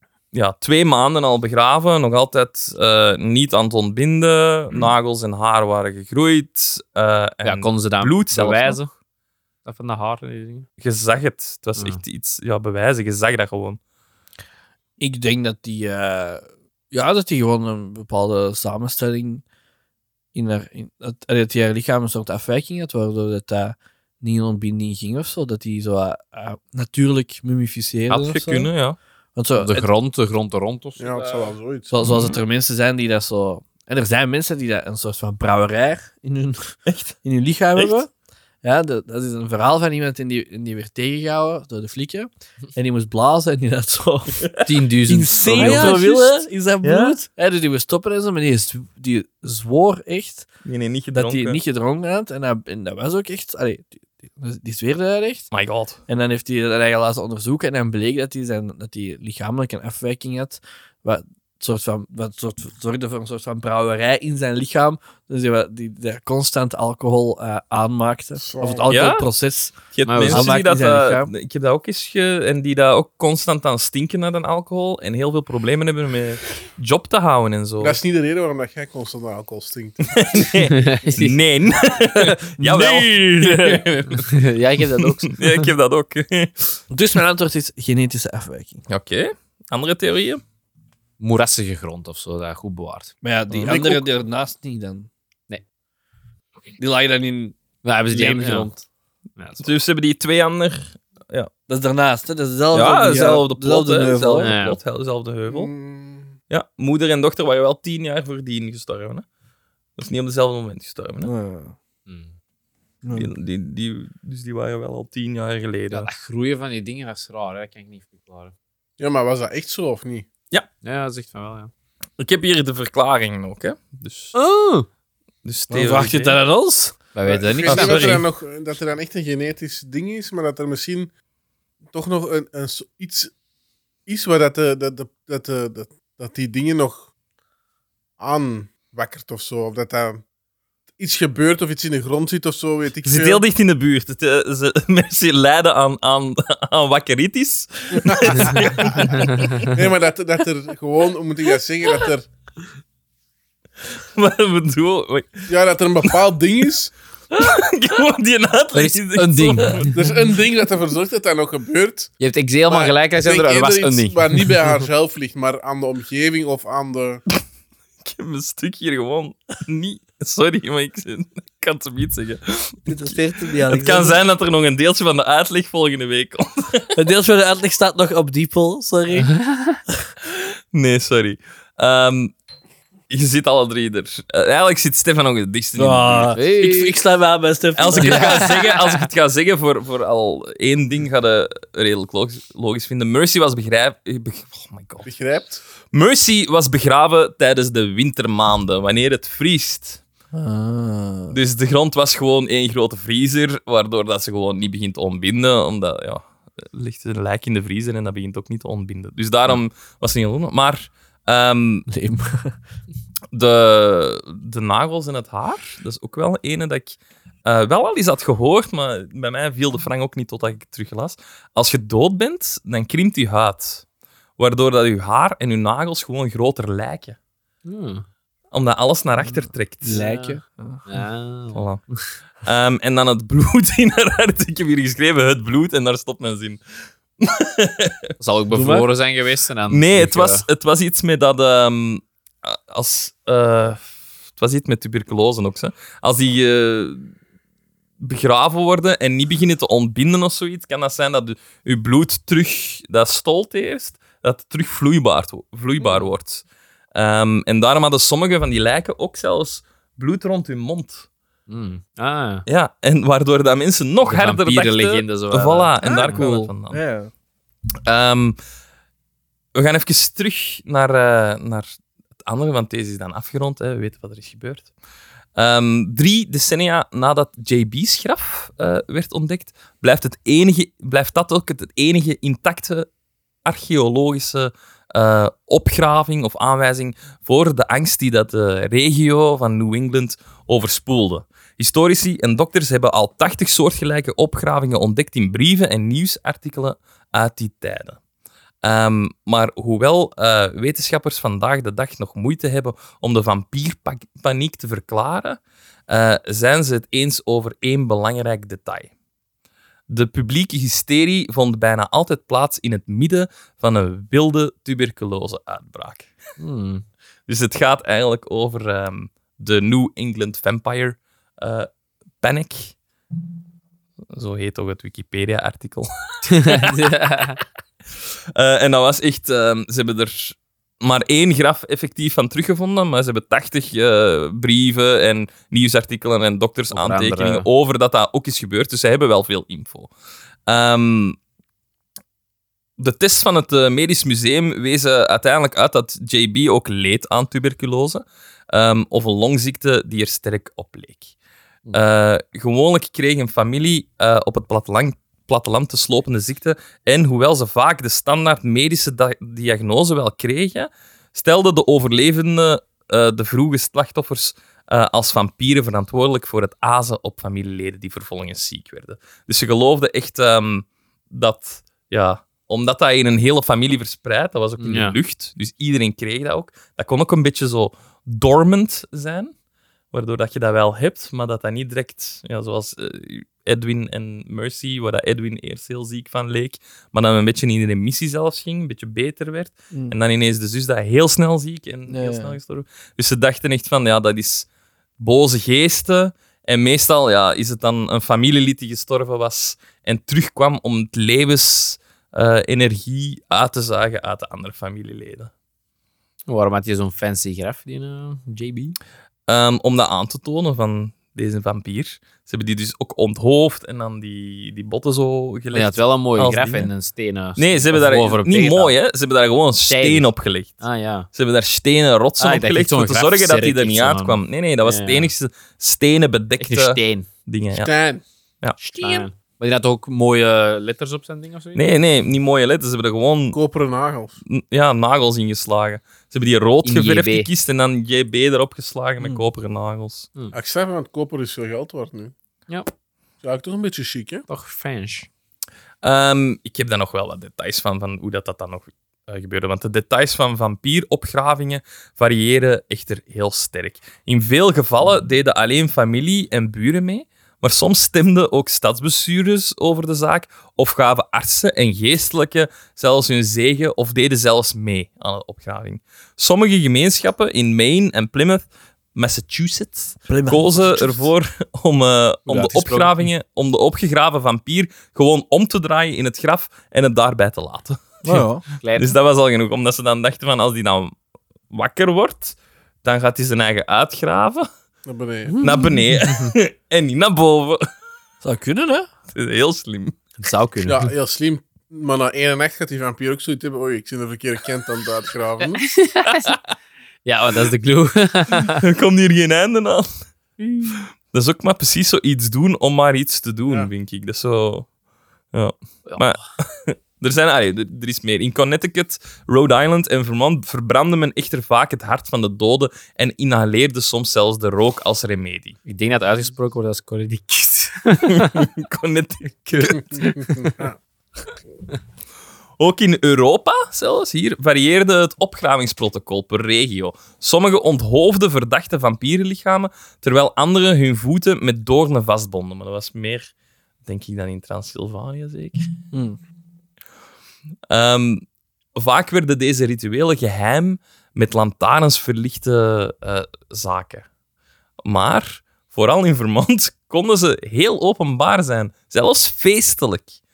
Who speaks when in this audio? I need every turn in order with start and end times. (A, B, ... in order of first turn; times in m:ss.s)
0:00.3-0:08.8 A
0:07.4-0:08.9 B
0:09.6-0:10.7 B
0:10.8-0:13.8 A
0:15.0-0:19.4 C
0:20.3-0:28.7 C
0:28.1-0:29.0 A
0:29.3-0:29.9 C
0:29.6-0:31.5 B
0:31.0-0:32.0 D
0:31.9-0:38.1 C
0:32.0-0:32.4 A
0:36.9-0:37.1 A
0:38.6-0:44.5 C
0:44.6-0:46.2 B
0:45.0-0:50.5 C
0:45.4-0:47.2 A
0:50.6-0:51.6 A
0:51.1-0:55.5 C
0:55.5-0:56.0 A
0:56.1-1:09.8 C
1:08.4-1:08.9 D
1:08.9-1:09.2 A
1:09.9-1:18.0 A
1:10.0-1:10.5 B
1:10.3-1:11.3 C
1:17.8-1:20.0 D
1:20.0-1:24.4 A
1:20.6-1:21.4 B
1:22.2-1:23.9 C
1:24.1-1:25.7 B
1:25.0-1:26.8 A
1:26.9-1:28.8 C
1:28.9-1:30.4 A
1:31.2-1:33.1 B
1:33.2-1:35.1 C
1:33.5-1:34.0 A
1:33.7-1:34.0 D
1:36.8-1:37.6 C
1:37.8-1:38.7 B
1:38.1-1:38.8 C
1:39.4-1:39.7 B
1:39.6-1:41.5 A
1:41.7-1:44.6 C
1:42.7-1:45.7 A
1:44.4-1:44.8 B
1:45.4-1:46.4 D
1:46.5-1:49.2 A
1:50.0-1:51.3 A
1:51.2-1:51.7 C
1:52.1-1:52.3 B
1:53.0-1:53.3 C
1:53.1-1:56.1 A
1:55.9-1:58.5 B
1:59.0-2:00.3 D
2:00.8-2:01.7 B
2:02.2-2:04.3 A
2:04.3-2:04.9 B
2:05.4-2:06.4 A
2:05.7-2:07.0 C
2:07.1-2:08.2 B
2:07.2-2:11.1 D
2:07.6-2:08.2 A
2:11.9-2:13.3 D
2:14.0-2:17.1 D
2:18.2-2:20.2 D
2:21.0-2:23.4 D
2:23.0-2:29.8 A
2:27.9-2:32.3 D
2:29.2-2:29.6 B
2:34.1-2:35.5 A
2:35.5-2:36.9 D
2:37.3-2:39.9 A
2:38.7-2:40.0 B
2:39.9-2:42.1 D
2:42.2-2:44.6 B
2:42.7-2:47.2 D
2:48.0-2:57.0 A
2:52.9-2:54.2 C
2:56.9-2:59.3 C
2:59.3-2:59.8 B
3:00.3-3:02.3 A
3:03.1-3:06.4 A
3:05.8-3:08.6 C
3:06.3-3:07.0 B
3:07.8-3:15.1 A
3:07.9-3:09.0 B
3:15.0-3:15.6 D
3:15.9-3:20.0 A
3:20.3-3:21.4 C
3:21.3-3:31.9 A
3:31.9-3:32.6 C
3:33.3-3:43.8 A
3:44.4-3:47.2 A
3:47.6-3:48.0 B
3:48.5-3:50.0 A
3:49.8-3:50.8 C
3:49.9-3:52.0 B
3:51.5-3:51.8 A
3:52.4-3:56.6 A
3:57.2-3:58.1 A
3:58.2-4:00.4 B
3:58.5-3:58.9 C
3:59.7-4:03.8 A
4:04.4-4:07.1 A
4:08.0-4:21.1 A
4:15.8-4:16.1 B
4:21.5-4:22.4 B
4:22.5-4:26.8 A
4:24.1-4:26.3 B
4:25.8-4:27.1 C
4:27.8-4:28.4 A
4:29.5-4:31.7 A
4:32.2-4:34.7 A
4:35.4-4:42.9 A
4:43.4-4:58.0 A
4:58.6-5:08.9 A
5:09.9-5:16.1 A
5:16.4-5:16.8 B
5:17.3-5:21.7 A
5:22.2-5:22.7 A
5:24.1-5:26.9 A
5:26.2-5:27.4 B
5:28.3-5:39.9 A
5:36.7-5:37.4 B
5:40.5-5:41.2 A
5:42.8-5:51.1 A
5:51.7-6:19.3 A
6:14.6-6:15.0 B
6:19.9-6:34.5 A
6:31.9-6:32.4 C
6:35.0-6:45.3 A
6:46.3-6:48.8 B
6:49.3-6:56.7 A
6:55.5-6:58.7 B
6:57.4-7:07.7 A
6:59.7-7:00.0 B
7:00.6-7:01.1 B
7:02.2-7:05.1 B
7:06.4-7:07.1 B
7:07.5-7:08.0 D
7:08.6-7:09.0 C
7:08.6-7:11.6 B
7:11.5-7:13.4 A
7:13.3-7:14.2 D
7:14.2-7:20.1 A
7:16.6-7:17.3 B
7:19.0-7:19.2 C
7:20.3-7:22.1 D
7:23.2-7:24.2 D
7:24.3-7:25.1 B
7:25.8-8:01.0 A
7:50.1-7:51.1 C
7:52.2-7:53.1 B
7:58.0-7:58.4 C
7:58.6-7:58.9 B
8:01.5-8:04.5 A
8:04.8-8:05.3 D
8:05.3-8:05.8 C
8:05.4-8:07.6 A
8:08.2-8:08.9 C
8:09.1-8:10.0 A
8:10.2-8:10.9 B
8:10.6-8:15.7 D
8:15.8-8:16.3 B
8:17.0-8:18.6 B
8:18.6-8:19.9 A
8:20.6-8:24.7 A
8:25.3-8:35.6 A
8:25.9-8:26.1 B
8:35.6-8:38.5 B
8:38.1-8:40.4 A
8:39.5-8:40.5 B
8:40.2-8:40.8 D
8:42.6-8:53.3 A
8:53.8-8:55.7 A
8:55.9-8:56.2 C
8:57.7-8:58.2 A
8:58.7-9:04.0 A
9:04.8-9:10.1 A